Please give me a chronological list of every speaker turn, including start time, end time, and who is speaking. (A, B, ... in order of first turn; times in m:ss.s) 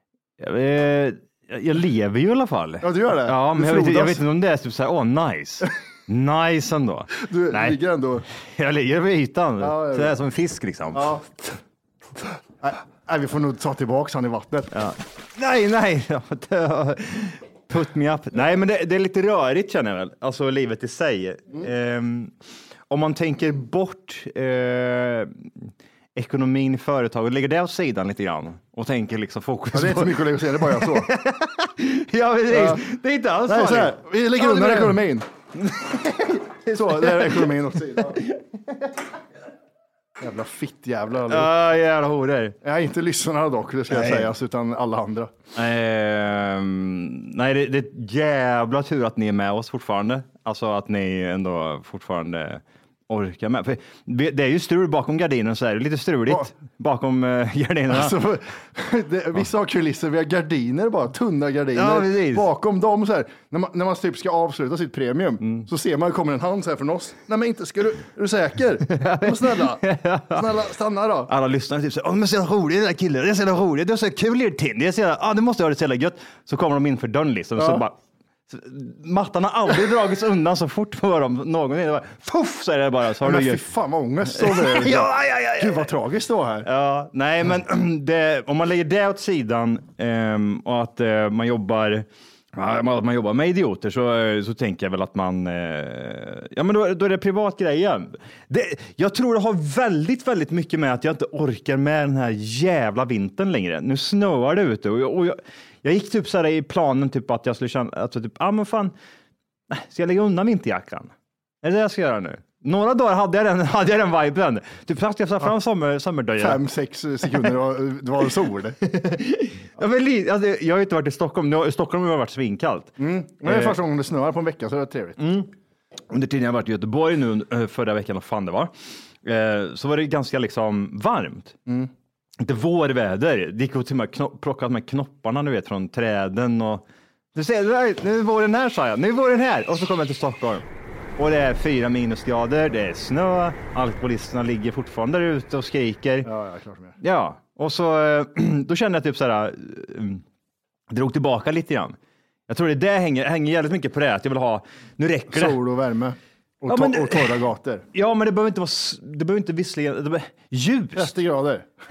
0:00.4-0:07.8 A
0:02.8-0:04.2 B
0:07.2-0:08.3 B
0:08.6-0:11.1 A
0:09.6-0:10.2 B
0:10.9-0:11.6 B
0:12.6-0:14.7 B
0:14.7-0:22.3 A
0:22.9-0:35.0 A
0:29.7-0:31.1 B
0:32.5-0:32.8 B
0:33.5-0:35.2 B
0:35.6-0:36.5 A
0:36.6-0:38.2 B
0:38.2-0:38.4 A
0:40.2-0:41.5 B
0:41.3-0:42.6 A
0:42.6-0:45.3 B
0:43.9-0:44.3 A
0:45.6-0:58.2 A
0:57.9-1:11.3 B
1:01.8-1:02.5 A
1:08.9-1:10.5 A
1:11.3-1:18.0 A
1:17.6-1:17.8 B
1:18.5-1:23.6 A
1:23.2-1:26.7 B
1:24.3-1:25.9 A
1:26.6-1:48.9 A
1:49.7-1:56.6 A
1:56.4-1:58.8 B
1:58.9-2:03.8 A
2:03.0-2:05.2 B
2:05.2-2:05.5 A
2:06.1-2:08.7 A
2:09.2-2:11.6 A
2:12.4-2:20.6 A
2:21.2-2:26.3 A
2:26.2-2:27.0 B
2:27.0-2:30.2 A
2:30.9-2:32.0 A
2:32.5-2:35.6 A
2:35.3-2:37.8 B
2:36.7-2:37.4 A
2:37.9-2:41.1 A
2:41.0-2:41.7 B